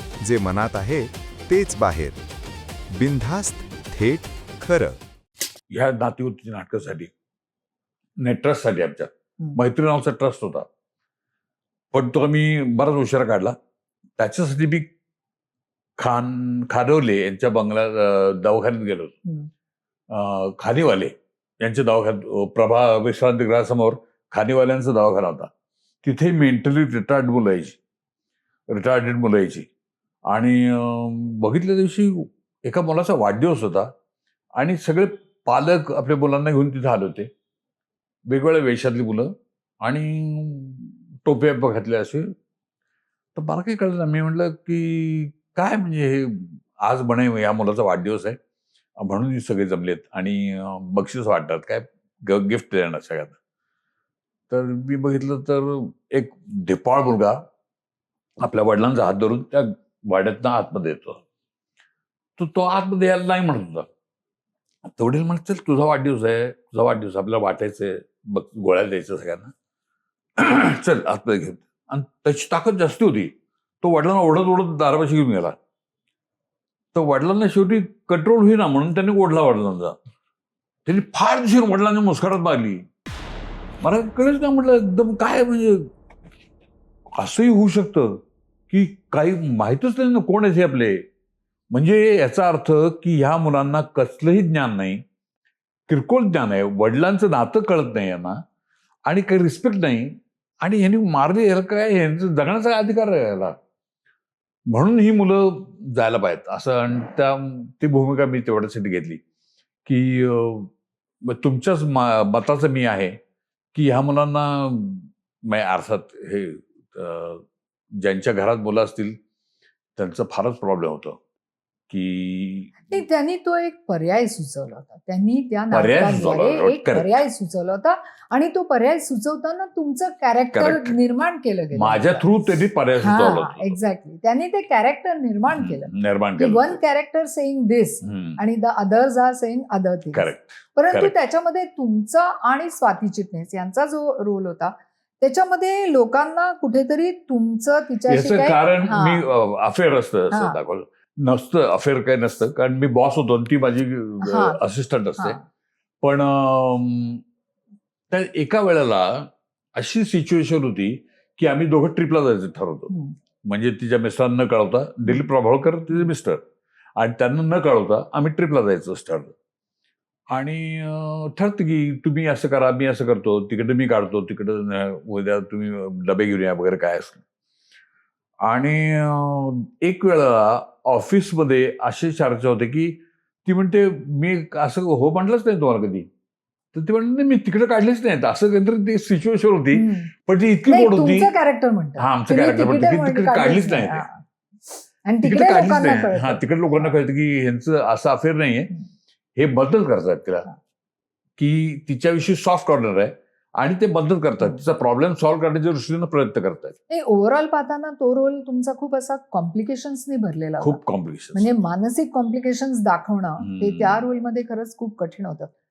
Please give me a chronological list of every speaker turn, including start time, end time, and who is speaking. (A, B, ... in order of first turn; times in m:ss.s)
0:00.2-0:02.2 A
0:02.9-0:05.0 A
0:05.7-0:07.1 B
0:08.2-0:10.6 B
0:11.9-0:13.5 B
0:14.2-0:14.9 B
0:16.0-0:19.1 B
0:20.1-0:25.5 B
0:26.0-0:27.8 B
0:28.7-0:29.7 B
0:30.3-0:33.9 B
0:34.6-0:37.3 B
0:38.3-0:42.3 B
0:43.4-0:48.4 B
0:49.0-0:53.4 B
0:54.5-0:57.4 B
0:58.4-1:01.2 B
1:02.4-1:03.8 B
1:04.8-1:09.5 B
1:10.4-1:15.6 B
1:16.9-1:19.9 B
1:20.8-1:22.8 B
1:23.8-1:25.9 B
1:27.1-1:28.2 B
1:28.7-1:31.0 B
1:31.7-1:35.0 B
1:35.9-1:38.4 B
1:39.0-1:43.5 B
1:44.7-1:49.2 B
1:49.8-1:50.7 B
1:51.2-1:53.2 B
1:53.7-1:57.4 B
1:58.0-1:59.2 B
2:00.0-2:01.2 B
2:01.9-2:03.0 B
2:02.8-2:12.4 C
2:05.7-2:07.2 B
2:10.5-2:11.0 B
2:11.7-2:13.8 B
2:13.0-2:29.3 C
2:15.5-2:16.8 B
2:18.0-2:18.4 B
2:20.1-2:21.1 B
2:28.1-2:35.4 B
2:30.3-2:30.6 C
2:34.2-2:34.6 C
2:35.2-2:35.4 C
2:36.0-2:37.2 B
2:38.1-2:42.9 B
2:42.9-2:43.1 C
2:43.4-2:46.4 B
2:47.0-2:49.3 B
2:50.3-2:57.2 B
2:58.4-3:06.1 B
3:06.7-3:11.3 B
3:09.7-3:10.1 C
3:10.7-3:14.2 C
3:12.0-3:14.0 B
3:15.0-3:16.9 C
3:15.2-3:18.7 B
3:19.4-3:20.5 B
3:21.4-3:26.8 B
3:26.9-3:30.8 C
3:30.6-3:31.5 B
3:31.3-3:35.5 C
3:33.4-3:34.1 B